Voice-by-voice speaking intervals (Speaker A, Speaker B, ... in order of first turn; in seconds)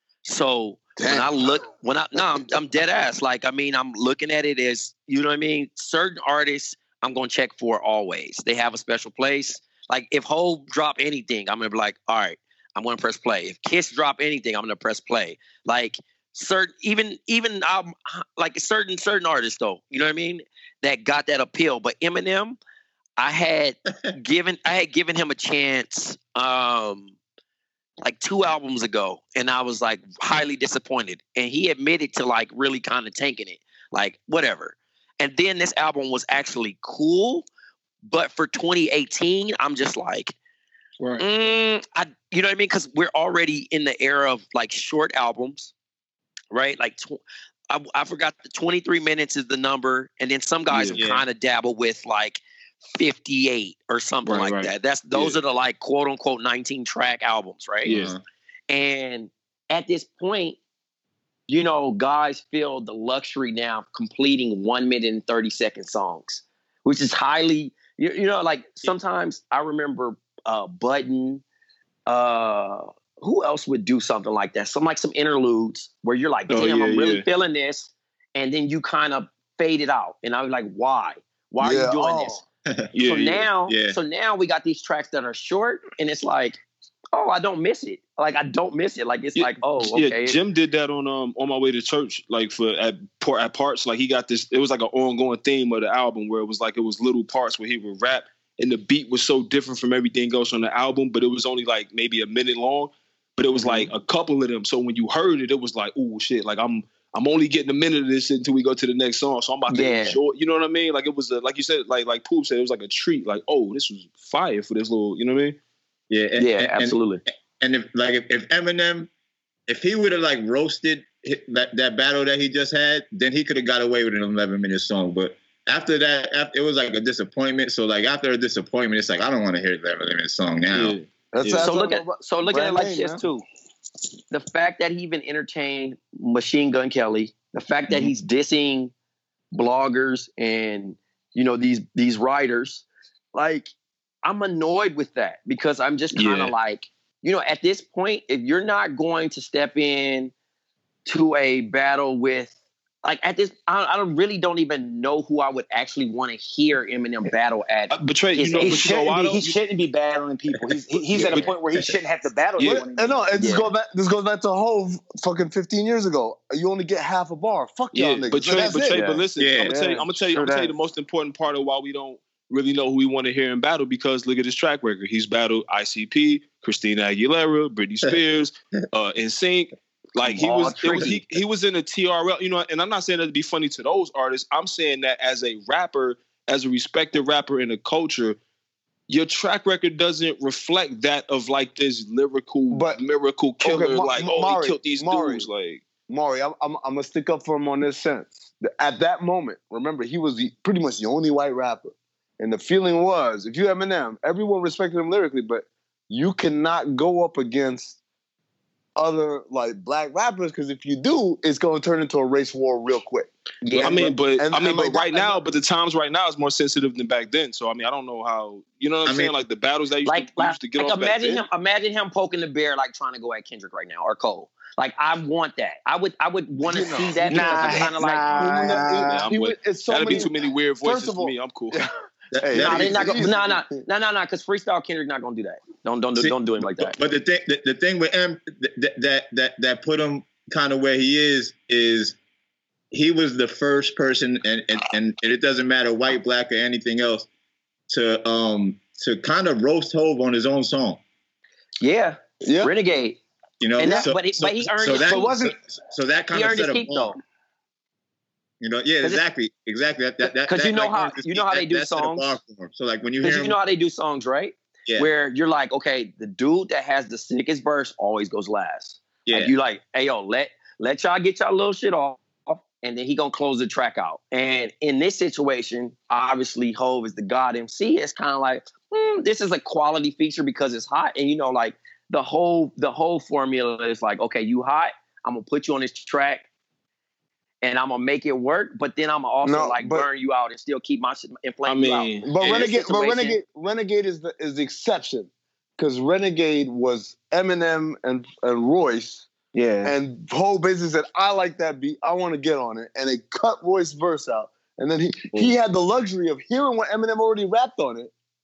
Speaker A: 0.2-22.6, 23.2-27.1, 28.0-37.5, 38.1-40.3, 41.2-45.7, 46.5-52.4, 53.0-58.0, 58.7-60.6, 61.5-71.4, 72.1-82.4, 83.0-86.6, 87.1-90.4, 103.5-103.9, 109.7-110.2, 116.4-117.2, 131.6-133.4, 134.3-138.9, 139.5-143.7, 144.2-150.3, 151.1-152.5, 153.0-158.8, 163.4-163.7, 180.2-181.1, 213.6-214.1, 220.1-228.7, 232.5-236.9, 251.8-253.2, 253.8-255.4, 256.3-257.2, 260.4-262.3, 263.2-286.4, 287.6-293.4
Speaker B: 1.0-1.6, 81.6-82.4, 131.3-133.2, 162.6-169.1, 169.6-170.0, 192.7-193.0, 193.6-195.5, 196.1-208.0, 208.9-215.4, 226.6-233.7, 252.4-252.7, 289.4-290.1, 292.2-299.3, 299.8-308.1
Speaker C: 50.7-51.0, 54.2-55.4, 57.8-58.1, 76.5-77.2, 82.9-83.5, 89.3-115.6, 130.7-131.7, 146.1-146.5, 157.9-159.5, 161.1-161.5, 162.6-162.8, 167.9-188.4, 189.1-195.8, 213.8-221.4, 229.0-231.8, 291.6-292.3
Speaker D: 51.0-51.2, 57.8-58.2, 83.6-84.0, 116.1-117.0, 117.6-119.1, 119.7-131.0, 161.2-162.0, 169.3-169.8, 180.9-181.2, 219.1-219.3, 232.3-233.2, 236.2-242.2, 242.9-247.3, 247.9-251.0, 253.6-257.1, 258.6-263.6, 269.2-269.5
Speaker E: 158.5-163.5, 168.6-169.2, 170.3-170.7, 227.3-229.2, 255.1-255.5, 299.5-299.9